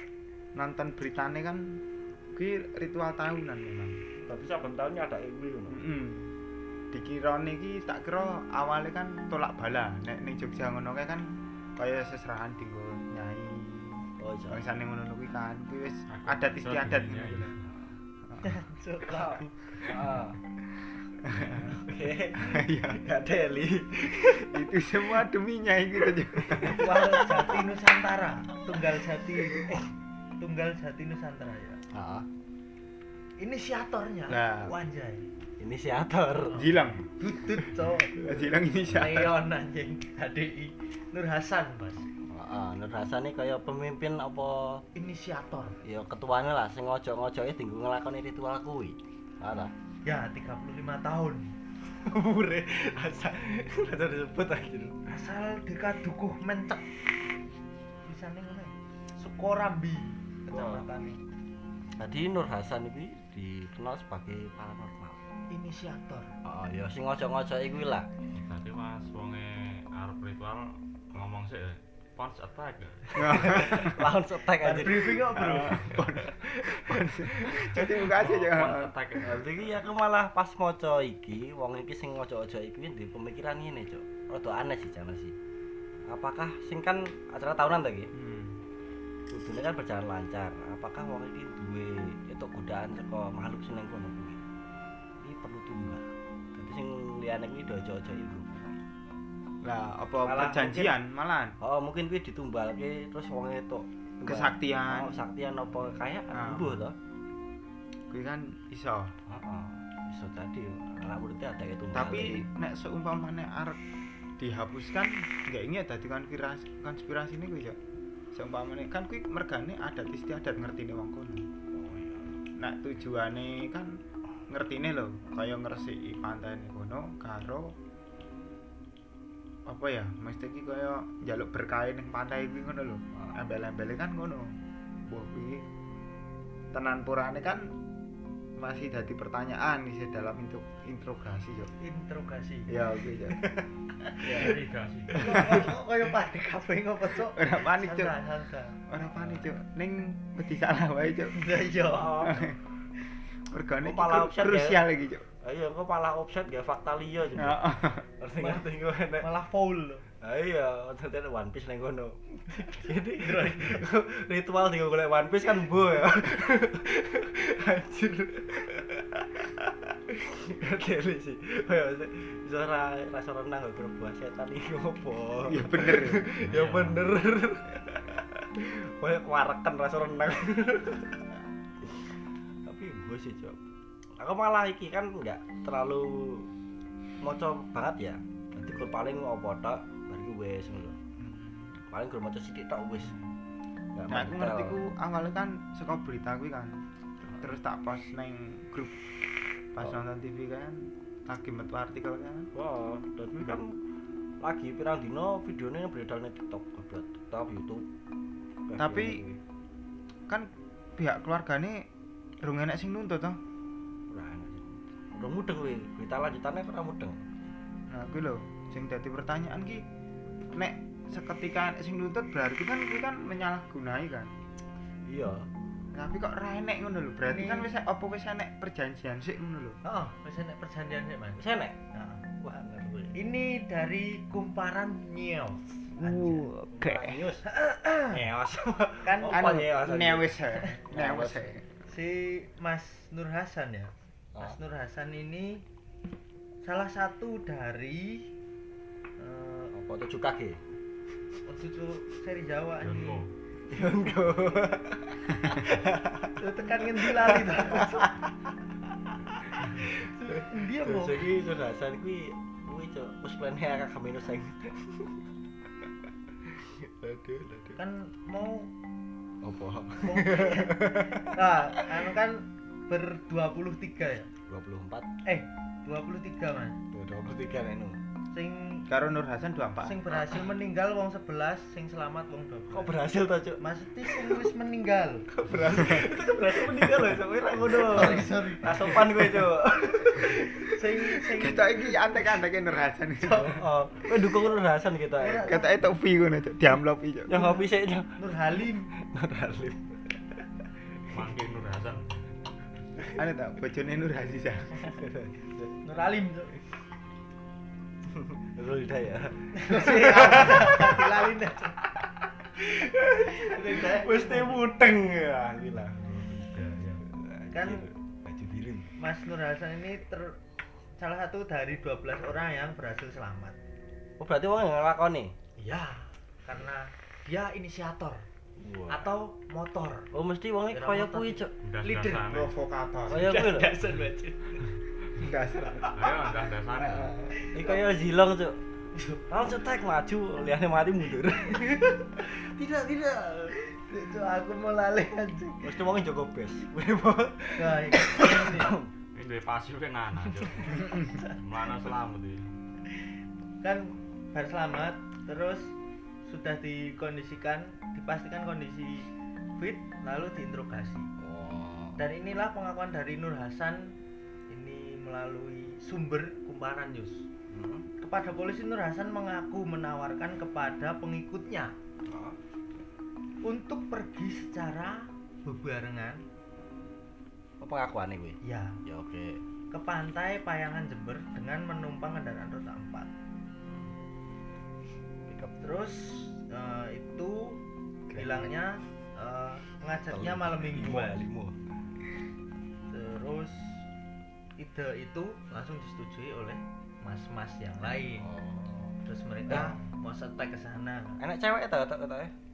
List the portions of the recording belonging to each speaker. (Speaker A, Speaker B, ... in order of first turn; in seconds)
Speaker A: 0.6-1.8, 2.4-4.0, 5.7-6.3, 6.9-17.5, 18.3-18.6, 21.2-21.8, 22.4-23.0, 24.5-26.8, 34.3-34.7, 36.5-37.1, 38.2-39.4, 73.2-74.0, 75.3-78.9, 88.2-88.6, 99.6-101.6, 104.2-105.2, 106.3-106.8, 108.1-109.1, 111.9-113.8, 114.4-117.8, 118.3-121.5, 122.6-124.0, 124.5-127.8, 129.7-134.5, 135.1-135.7, 136.7-137.7, 138.6-141.7, 142.7-143.4, 145.2-145.7, 147.3-148.2, 148.9-151.4, 152.2-152.6, 153.5-155.2, 157.4-158.1, 175.5-176.3, 191.2-191.8, 194.1-199.0, 199.8-202.5, 208.8-209.2, 210.3-211.9, 212.4-213.4, 217.9-219.8, 220.5-224.3, 225.9-229.8, 236.0-237.2, 239.3-241.7, 278.9-280.0, 291.4-293.6, 295.5-297.4, 303.1-304.8, 310.0-310.6, 332.3-333.3, 335.2-335.9, 336.8-337.3, 388.1-388.5, 399.5-399.9
Speaker B: 4.2-5.8, 14.2-14.7, 19.1-20.4, 21.5-24.6, 26.4-27.6, 31.9-32.2, 35.6-36.6, 42.3-44.8, 45.8-49.7, 51.9-55.0, 60.5-60.9, 62.0-65.2, 66.4-68.1, 73.1-75.2, 76.4-77.9, 79.2-85.3, 86.1-88.1, 89.3-94.4, 95.2-98.8, 100.2-101.0, 101.6-107.0, 109.3-112.5, 121.7-122.4, 144.2-144.6, 151.9-152.5, 153.8-154.8, 155.4-159.3, 160.2-181.2, 181.8-182.1, 182.7-183.6, 184.2-186.5, 187.2-190.9, 191.9-193.1, 193.9-194.8, 202.6-203.8, 204.4-207.9, 208.7-209.4, 214.1-217.2, 225.1-225.5, 231.4-231.8, 232.4-233.1, 236.7-237.5, 238.1-241.5, 249.7-250.6, 253.7-256.3, 257.0-258.3, 259.4-265.2, 266.4-267.8, 269.4-271.9, 274.5-275.1, 276.9-278.0, 282.7-284.5, 285.3-291.0, 293.4-295.5, 297.3-298.1, 299.0-300.5, 304.9-305.8, 308.1-311.2, 311.9-316.3, 317.1-318.9, 324.2-325.3, 328.6-329.1, 330.1-331.5, 333.1-333.8, 337.5-338.6, 339.3-343.6, 345.6-348.9, 361.2-362.0, 367.5-367.9, 372.1-372.4, 377.6-379.4, 383.7-383.9, 385.3-385.6, 390.1-391.6, 398.2-398.9, 401.2-402.3
Speaker C: 16.1-17.9, 68.3-73.9, 75.8-76.0, 77.9-79.7, 144.3-145.7, 176.4-177.1, 252.8-253.3, 301.1-302.2, 315.9-317.0, 331.6-332.6, 335.9-337.2, 349.1-352.4
Speaker D: 18.4-19.8, 26.6-29.9, 30.4-31.8, 33.4-35.2, 36.5-38.3, 38.8-42.1, 45.0-45.8, 50.1-51.5, 55.1-56.9, 58.0-61.2, 65.5-66.3, 74.6-75.8, 141.8-142.7, 143.3-144.6, 145.2-148.8, 151.3-152.4, 158.4-158.7, 159.2-160.0, 162.7-163.9, 227.3-227.7, 229.8-231.4, 231.9-232.2, 233.1-236.5, 237.5-238.2, 239.0-239.4, 241.9-245.6, 246.6-248.2, 249.2-249.7, 251.5-253.2, 256.4-258.1, 260.0-261.3, 267.8-268.7, 270.0-274.3, 275.2-276.8, 278.3-278.9, 279.8-282.9, 283.6-285.2, 287.7-292.0, 293.2-293.6, 295.2-295.9, 297.3-298.9, 305.8-306.6, 309.5-311.8, 313.3-314.7, 317.5-317.9, 319.0-320.4, 321.0-323.6, 325.6-328.2, 328.9-330.1, 330.7-332.3, 333.1-334.6, 337.4-337.9, 338.9-339.3, 343.6-345.7, 347.6-348.7, 350.9-351.3, 353.6-355.7, 356.2-361.1, 362.0-363.9, 364.5-367.2, 368.0-371.8, 373.4-376.2, 378.4-378.8, 379.7-383.1, 385.6-387.6, 388.2-391.2, 392.9-393.9, 394.6-398.3, 399.0-401.2